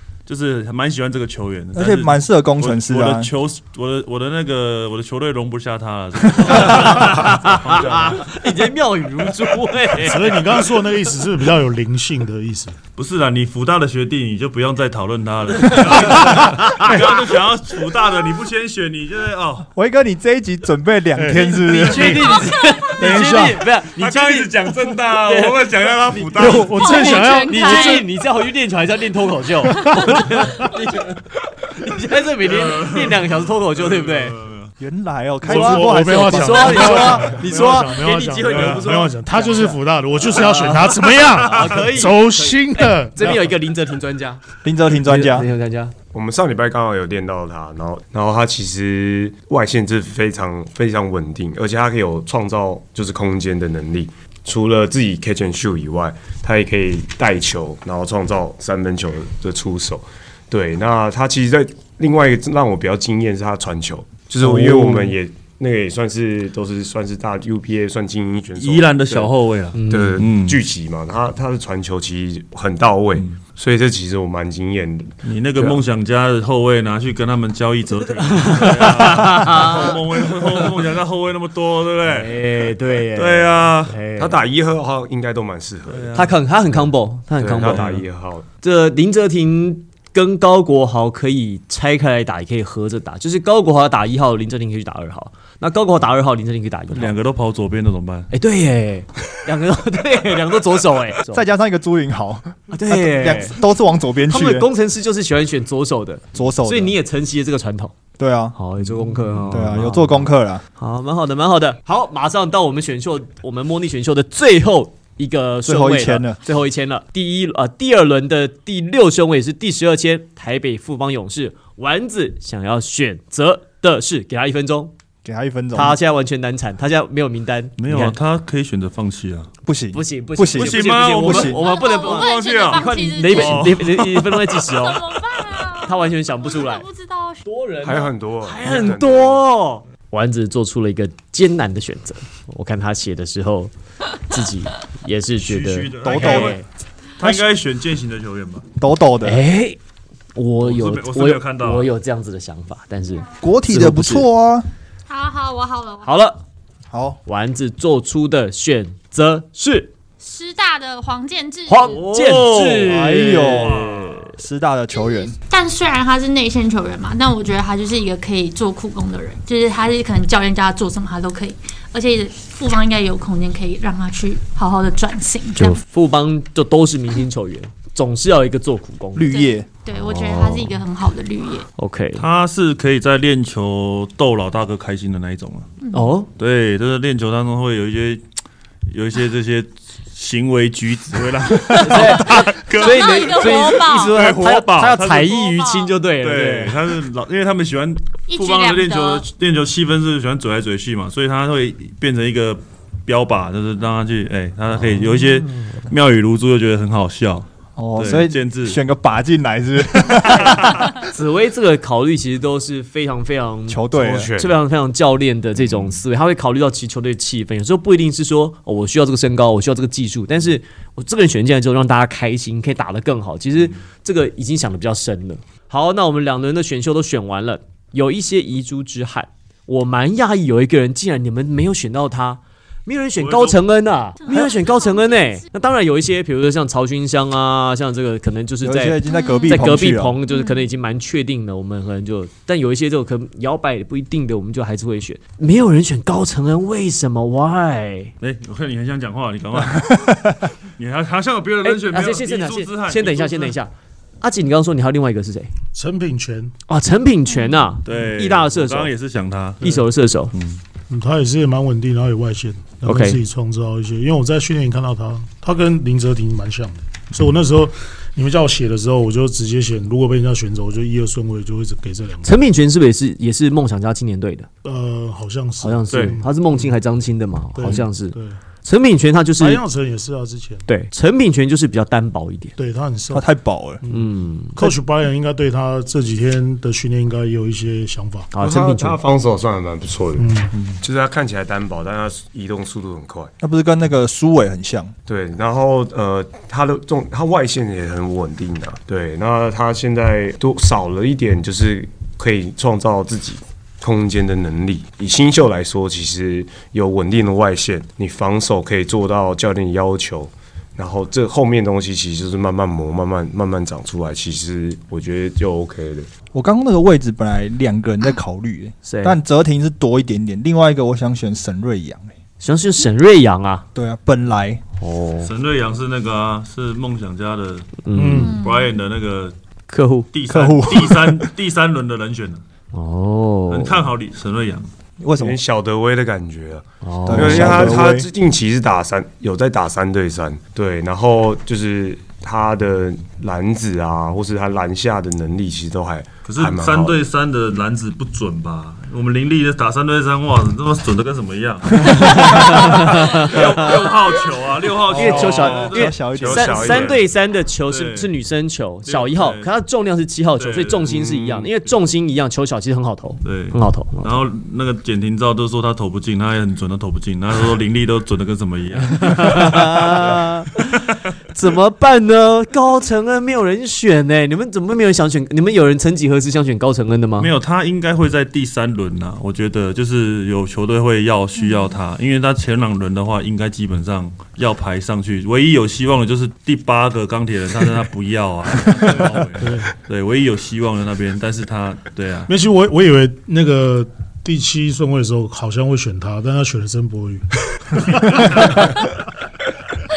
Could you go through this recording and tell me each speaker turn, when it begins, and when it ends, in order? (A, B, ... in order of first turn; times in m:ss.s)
0:00.3-0:08.3 A
0:01.8-0:03.3 B
0:06.5-0:10.4 C
0:10.0-0:12.8 D
0:13.0-0:19.7 A
0:15.7-0:17.0 C
0:19.8-0:22.3 B
0:21.2-0:22.4 D
0:21.6-0:34.4 C
0:22.4-0:23.1 E
0:23.0-0:23.6 D
0:24.0-0:27.0 A
0:26.4-0:28.1 D
0:26.8-0:28.1 E
0:29.8-0:30.1 E
0:32.5-0:34.7 A
0:34.8-0:37.4 B
0:35.4-0:43.4 D
0:35.5-0:45.9 C
0:38.4-0:39.0 A
0:44.6-0:45.5 B
0:46.1-1:09.3 F
1:04.4-1:05.2 C
1:08.6-1:10.6 A
1:09.8-1:10.2 C
1:09.9-1:15.2 F
1:15.2-1:24.0 A
1:18.2-1:20.7 C
1:22.0-1:24.4 C
1:24.2-1:26.2 F
1:25.9-1:26.4 A
1:26.2-1:28.0 C
1:27.4-1:28.5 F
1:27.6-1:28.0 A
1:28.6-1:37.2 C
1:36.9-1:38.3 A
1:38.3-1:41.4 C
1:41.3-1:44.7 B
1:42.7-1:43.6 C
1:44.3-1:48.0 C
1:46.4-1:47.0 B
1:48.2-1:48.6 B
1:48.6-2:04.9 C
1:49.5-1:50.6 B
1:55.7-1:56.4 B
2:05.2-2:06.0 B
2:05.7-2:08.2 C
2:07.8-2:09.5 A
2:09.6-2:11.6 B
2:09.9-2:15.0 C
2:10.6-2:14.7 A
2:11.5-2:13.8 E
2:14.7-2:17.5 E
2:15.8-2:16.8 C
2:17.4-2:23.7 C
2:17.8-2:19.4 F
2:24.3-2:26.6 C
2:25.4-2:26.6 A
2:26.0-2:26.6 B
2:27.2-2:28.7 A
2:28.8-2:29.4 B
2:29.2-2:29.8 C
2:30.4-2:34.3 C
2:30.6-2:31.9 A
2:33.4-2:34.7 B
2:35.1-2:36.1 E
2:36.0-2:36.4 C
2:36.9-2:37.2 B
2:37.3-2:39.9 C
2:40.2-2:42.0 E
2:41.7-2:44.2 C
2:41.8-2:44.3 A
2:42.9-2:45.3 B
2:45.0-2:55.8 E
2:55.6-2:59.3 C
2:59.2-2:59.7 B
2:59.3-3:01.7 E
3:00.1-3:00.7 C
3:01.8-3:02.2 C
3:02.2-3:05.7 A
3:05.8-3:06.1 E
3:05.9-3:06.3 C
3:06.4-3:08.2 A
3:08.9-3:15.6 A
3:11.7-3:16.8 C
3:12.2-3:14.2 E
3:15.6-3:15.9 E
3:16.2-3:28.8 A
3:18.3-3:19.3 E
3:25.0-3:25.8 C
3:27.8-3:30.9 B
3:31.0-3:33.8 C
3:33.7-3:34.4 B
3:34.0-3:34.5 F
3:34.4-4:08.1 C
3:53.2-3:53.6 A
3:54.2-3:55.6 E
3:58.6-4:00.2 B
3:59.0-4:00.7 E
4:08.2-4:13.6 A
4:11.6-4:15.5 C
4:15.7-4:16.5 D
4:16.7-4:18.9 C
4:17.8-4:19.7 A
4:19.6-4:20.3 C
4:20.3-4:20.6 A
4:20.9-4:32.4 D
4:22.8-4:23.2 C
4:32.2-4:34.5 C
4:34.6-4:36.7 D
4:35.6-4:39.6 C
4:35.9-4:36.2 A
4:37.6-4:38.4 D
4:39.4-4:40.7 D
4:40.7-4:42.6 C
4:42.6-4:43.3 D
4:43.1-4:43.8 B
4:43.8-4:48.3 D
4:43.9-4:44.6 C
4:48.3-4:49.0 C
4:48.4-4:53.3 F
4:50.2-4:50.5 D
4:53.4-4:54.9 B
4:55.1-5:16.1 F
5:16.3-5:22.1 B
5:18.8-5:19.2 C
5:22.4-5:23.7 C
5:23.8-5:24.6 B
5:24.8-5:25.3 C
5:25.2-5:29.4 A
5:27.8-5:28.4 C
5:28.0-5:28.4 D
5:28.2-5:28.7 E
5:29.7-5:30.1 C
5:30.1-5:32.4 A
5:30.3-5:31.3 B
5:32.7-5:33.8 C
5:33.5-5:34.7 A
5:35.0-5:35.4 B
5:35.2-5:47.0 F
5:36.8-5:37.8 C
5:37.1-5:38.1 B
5:46.2-5:57.0 A
5:51.8-5:53.9 C
5:54.9-5:56.8 B
5:54.9-6:04.2 C
5:56.2-5:57.0 F
5:57.7-5:58.1 A
5:58.9-5:59.5 A
6:00.4-6:01.5 A
6:03.2-6:10.2 A
6:09.0-6:17.3 C
6:17.2-6:32.3 A
6:21.4-6:21.7 E
6:29.4-6:29.7 D
6:32.3-6:38.7 D